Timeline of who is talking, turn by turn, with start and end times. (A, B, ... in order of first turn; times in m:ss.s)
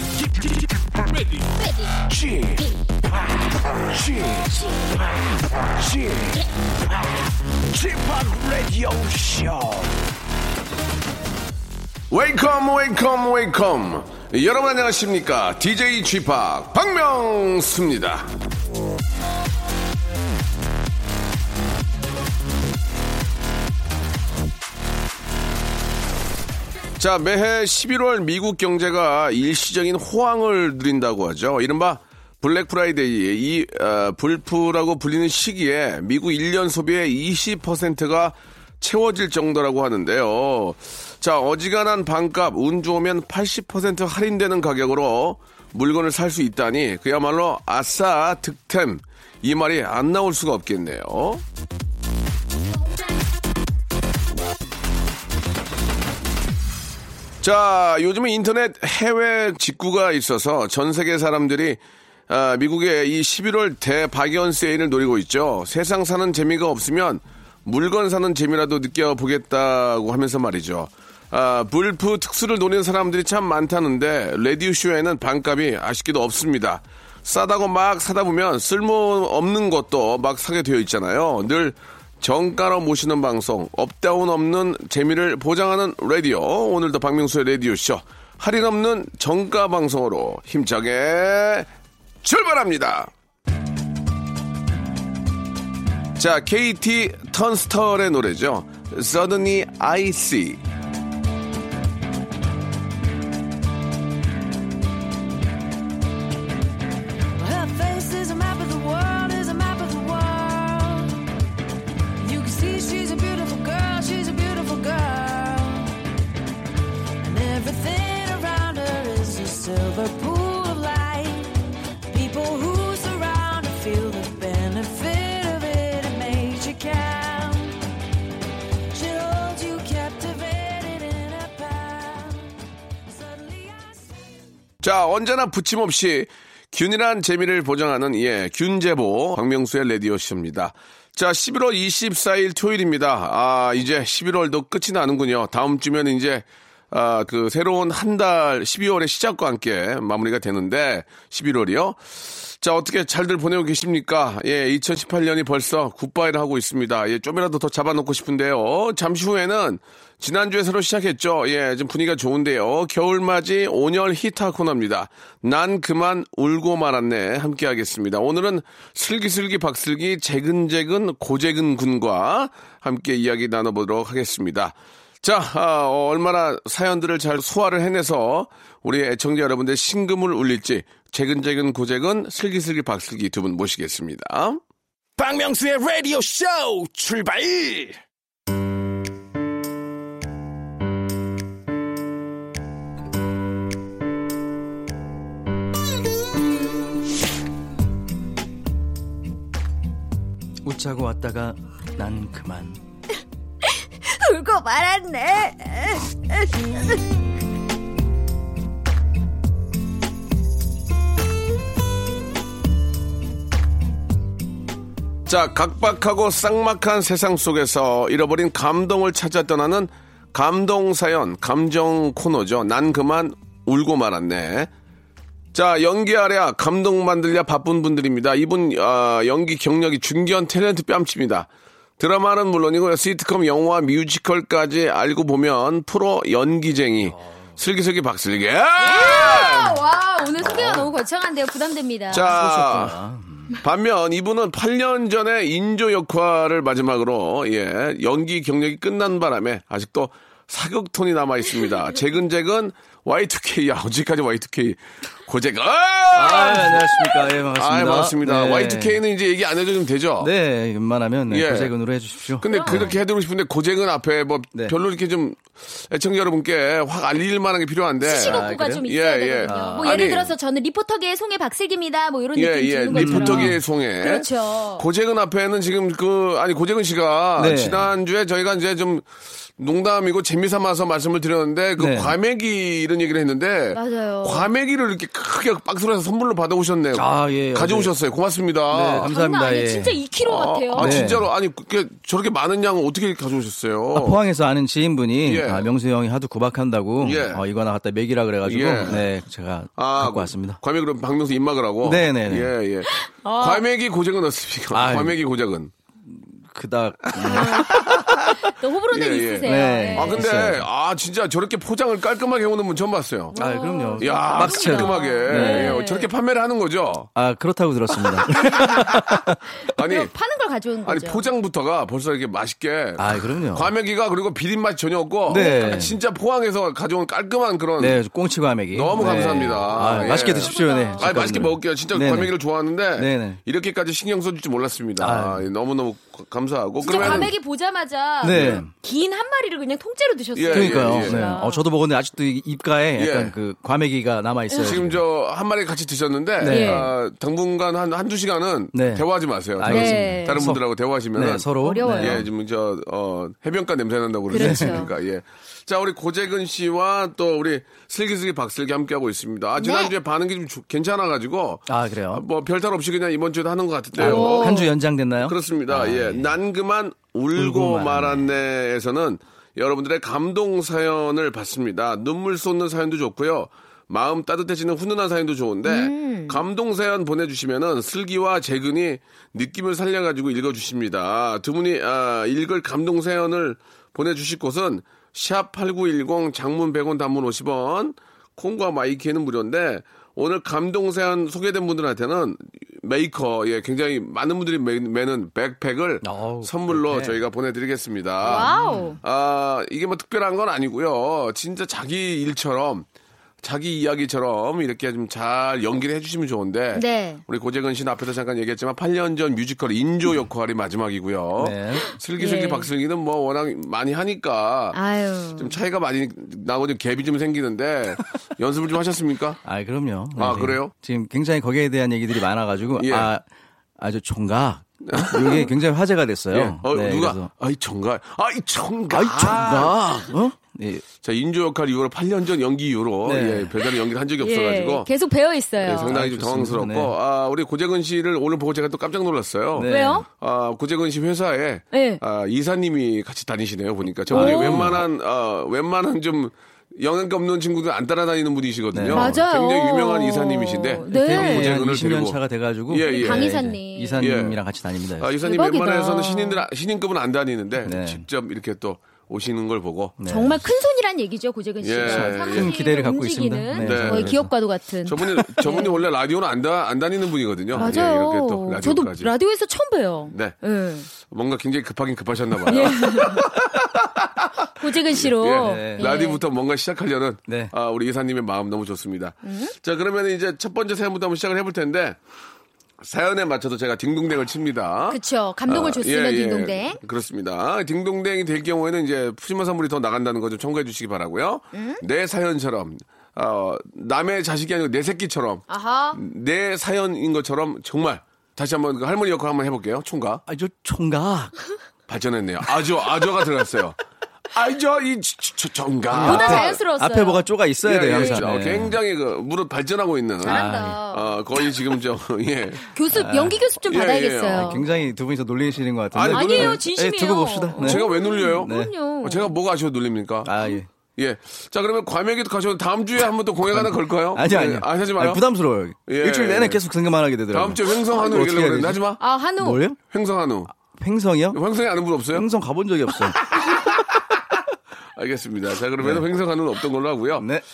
0:00.2-0:10.1 A
0:12.1-0:18.3 B
0:27.0-0:51.4 B
0:57.4-1:31.7 B
1:32.2-1:33.1 B
1:36.2-1:40.6 B
1:47.4-1:51.2 C
1:52.2-1:55.9 C
1:57.2-2:01.5 C
2:02.1-2:07.8 C
2:08.9-2:14.5 C
2:14.8-3:04.6 B
3:05.2-3:08.0 A
3:20.6-3:22.8 D
3:24.0-3:27.0 E
3:35.3-3:44.7 B
3:45.5-3:59.8 B
3:57.1-3:57.5 D
3:58.8-4:02.3 E
4:00.4-4:00.9 B
4:02.1-4:03.0 B
4:02.1-4:03.6 D
4:03.6-4:20.3 B
4:16.1-4:19.0 D
4:20.2-4:22.9 D
4:21.3-4:21.7 B
4:22.4-4:30.3 B
4:22.4-4:22.9 E
4:28.0-4:34.8 E
4:28.1-4:28.9 D
4:29.4-4:30.1 D
4:32.4-4:39.1 B
4:32.9-4:33.6 D
4:37.4-4:37.9 D
4:39.6-4:49.1 B
4:41.8-4:42.2 D
4:43.7-4:44.5 E
4:46.9-4:47.9 D
4:48.7-4:50.0 D
4:49.0-4:51.2 E
4:50.2-4:54.2 B
4:50.7-4:51.3 D
4:53.9-5:00.6 D
4:55.2-4:55.7 B
4:57.0-4:57.4 B
4:58.4-4:59.1 B
4:59.8-5:05.7 B
5:01.8-5:02.5 D
5:03.0-5:03.6 E
5:04.7-5:05.2 D
5:06.1-5:08.4 D
5:07.2-5:07.8 E
5:07.2-5:08.2 B
5:08.4-5:10.3 E
5:08.9-5:13.3 B
5:09.4-5:10.7 D
5:13.3-5:16.1 E
5:13.4-5:15.8 D
5:14.0-5:17.1 B
5:17.2-5:19.4 D
5:18.0-5:19.2 B
5:18.4-5:18.9 E
5:19.6-5:21.2 E
5:19.7-5:20.1 B
5:20.8-5:28.0 B
5:23.0-5:23.7 D
5:25.3-5:25.9 D
5:25.3-5:25.9 E
5:27.8-5:32.3 D
5:28.7-5:37.3 B
5:29.0-5:31.1 E
5:33.0-5:33.4 D
5:35.0-5:35.5 D
5:36.8-5:41.6 E
5:36.9-5:37.3 D
5:38.2-5:38.7 D
5:38.2-5:38.6 B
5:40.4-5:41.2 B
5:40.5-5:45.0 D
5:43.0-5:43.3 B
5:44.5-5:44.8 E
5:44.6-6:04.7 B
5:46.4-5:46.9 D
5:46.4-5:46.9 E
5:48.7-5:49.1 D
5:49.6-5:50.6 D
5:49.7-5:50.4 E
5:51.1-5:52.3 D
5:51.6-5:52.2 E
5:54.3-5:54.9 E
5:54.3-5:54.9 D
5:59.6-5:59.9 E
6:01.7-6:02.2 D
6:04.0-6:04.7 E
6:04.0-6:06.3 D
6:05.2-6:42.9 B
6:07.4-6:08.3 D
6:15.6-6:16.4 E
6:36.0-6:37.2 D
6:38.2-6:39.0 E
6:38.3-6:39.0 D
6:43.4-6:54.8 B
6:46.7-6:47.2 E
6:51.4-6:51.9 D
6:52.2-6:52.7 E
6:54.7-6:55.6 E
6:55.4-6:59.4 B
6:59.4-7:03.2 D
7:00.2-7:00.7 B
7:02.8-7:03.1 B
7:03.8-7:07.3 D
7:04.9-7:05.5 B
7:06.3-7:10.1 B
7:08.9-7:10.8 D
7:11.0-7:14.9 B
7:13.0-7:13.6 D
7:14.2-7:16.0 E
7:15.6-7:33.4 B
7:15.9-7:16.9 D
7:19.5-7:20.0 D
7:19.7-7:20.1 E
7:21.7-7:22.0 E
7:24.1-7:24.7 E
7:24.1-7:24.8 D
7:28.7-7:29.2 D
7:28.9-7:31.6 E
7:30.9-7:35.1 D
7:32.8-7:34.1 E
7:34.0-7:34.4 B
7:35.0-7:40.0 B
7:35.2-7:36.4 E
7:37.6-7:38.0 D
7:40.0-7:40.4 D
7:40.0-7:45.8 E
7:41.6-7:42.6 B
7:41.8-7:44.3 D
7:43.6-7:44.3 B
7:44.8-7:49.1 B
7:47.5-7:47.8 D
7:47.6-7:50.9 E
7:50.1-7:50.4 B
7:50.9-8:02.0 B
7:52.5-7:53.3 E
7:54.6-7:56.2 E
7:55.4-7:56.0 D
7:57.3-7:57.5 D
7:59.2-7:59.5 E
8:02.8-8:20.2 B
8:04.9-8:06.8 E
8:11.5-8:11.8 E
8:15.5-8:16.0 E
8:20.3-8:21.3 D
8:21.9-8:23.8 B
8:24.3-8:26.6 B
8:25.9-8:28.8 D
8:26.0-8:27.2 E
8:27.6-8:32.7 B
8:27.9-8:28.2 E
8:30.2-8:31.2 E
8:30.2-8:30.8 D
8:32.7-8:34.6 E
8:32.9-8:33.4 D
8:33.6-8:34.6 B
8:34.3-8:37.9 D
8:35.9-8:36.6 B
8:36.1-8:39.3 E
8:37.6-8:40.4 B
8:38.4-8:38.7 D
8:40.2-8:40.7 D
8:41.0-8:45.2 B
8:43.5-8:48.8 D
8:45.9-8:46.6 B
8:47.3-8:49.0 B
8:49.0-8:49.6 E
8:49.4-8:49.8 D
8:49.9-8:50.5 B
8:50.6-8:51.4 D
8:51.3-8:52.3 B
8:52.1-8:53.2 D
8:53.2-8:54.2 B
8:55.0-8:57.3 B
8:57.2-8:57.4 D